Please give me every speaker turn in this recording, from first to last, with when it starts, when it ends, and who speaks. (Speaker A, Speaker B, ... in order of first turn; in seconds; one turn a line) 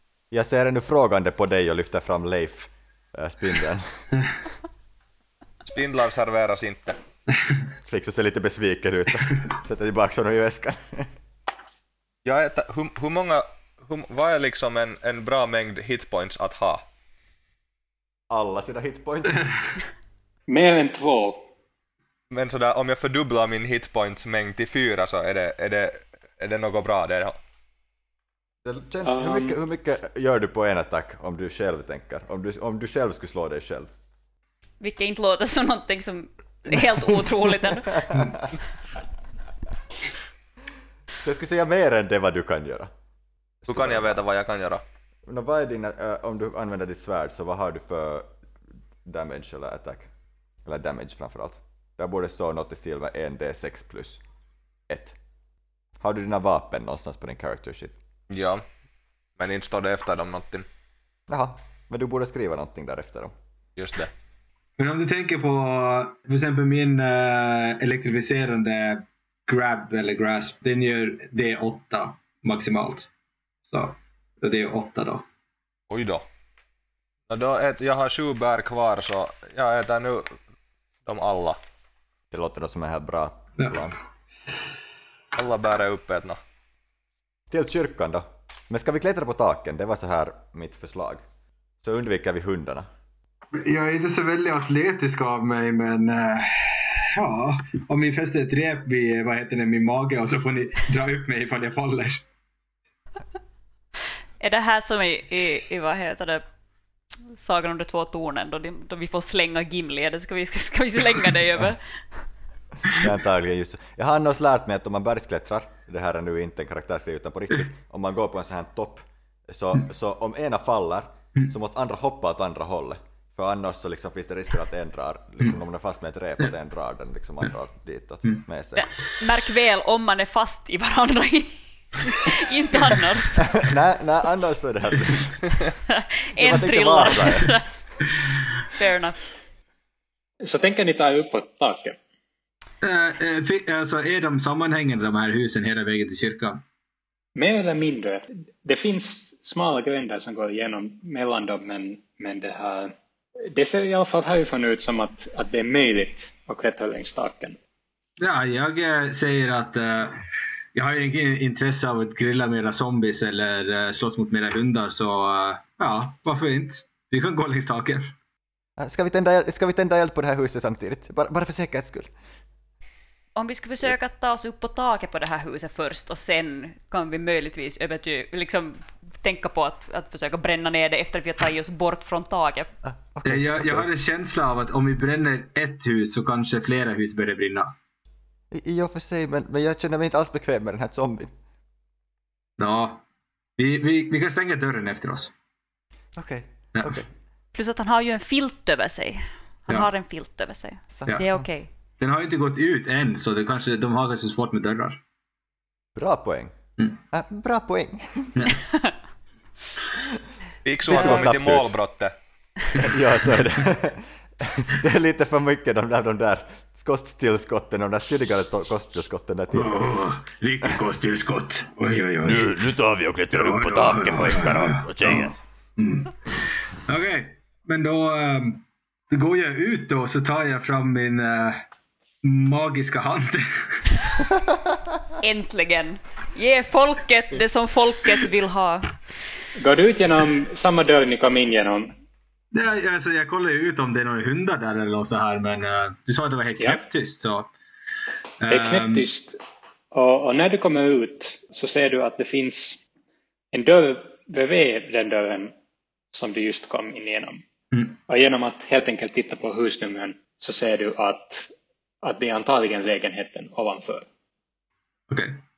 Speaker A: 0.3-4.0
Speaker B: 5.7-7.0
Speaker A: 7.8-11.1
Speaker B: 12.2-16.9
Speaker A: 18.3-19.5
Speaker C: 20.5-21.5
Speaker B: 22.3-27.4
Speaker A: 28.6-33.9
Speaker C: 29.0-29.6
Speaker D: 34.8-38.3
Speaker A: 37.1-38.5
Speaker A: 41.2-42.9
Speaker A: 43.6-44.2
Speaker B: 43.7-44.8
Speaker A: 45.3-48.3
Speaker A: 49.0-50.1
Speaker A: 50.6-54.2
Speaker A: 54.9-55.2
Speaker A: 56.0-58.0
Speaker B: 58.3-58.6
Speaker B: 59.4-60.7
Speaker A: 61.3-63.3
Speaker B: 63.8-64.1
Speaker E: 64.8-73.1
Speaker E: 73.7-75.2
Speaker B: 75.9-76.2
Speaker B: 77.3-80.4
Speaker B: 81.1-81.6
Speaker A: 82.3-84.0
Speaker E: 83.6-83.9
Speaker B: 85.3-86.4
Speaker A: 87.5-91.2
Speaker A: 91.8-92.9
Speaker E: 93.6-102.2
Speaker D: 104.4-106.4
Speaker D: 107.3-111.8
Speaker A: 113.0-128.9
Speaker D: 128.8-133.6
Speaker A: 133.4-135.6
Speaker D: 135.9-138.1
Speaker A: 136.4-137.6
Speaker D: 138.8-139.2
Speaker C: 140.4-142.0
Speaker E: 142.8-146.6
Speaker C: 147.4-152.9
Speaker C: 153.5-157.6
Speaker E: 158.2-160.2
Speaker E: 160.7-168.1
Speaker A: 168.8-172.1
Speaker D: 173.4-182.7
Speaker A: 182.9-183.9
Speaker E: 183.2-187.8
Speaker A: 188.5-191.3
Speaker E: 192.6-193.0
Speaker E: 193.6-195.3
Speaker A: 196.2-197.1
Speaker E: 196.8-197.1
Speaker D: 197.5-201.7
Speaker A: 200.9-201.5
Speaker E: 202.0-205.0
Speaker A: 205.9-206.5
Speaker A: 207.1-208.6
Speaker D: 208.7-208.9
Speaker B: 210.7-212.1
Speaker A: 210.8-211.8
Speaker D: 210.9-211.2
Speaker A: 212.8-219.8
Speaker E: 212.8-213.4
Speaker E: 219.6-222.7
Speaker A: 222.2-225.4
Speaker E: 223.3-226.2
Speaker E: 226.9-231.7
Speaker E: 232.2-233.9
Speaker D: 235.2-239.0
Speaker C: 239.6-242.0
Speaker E: 242.5-247.5
Speaker E: 248.4-249.1
Speaker C: 248.5-249.4
Speaker C: 249.9-252.8
Speaker C: 253.5-255.5
Speaker C: 256.1-257.4
Speaker C: 258.1-261.5
Speaker C: 262.0-264.1
Speaker E: 265.1-265.4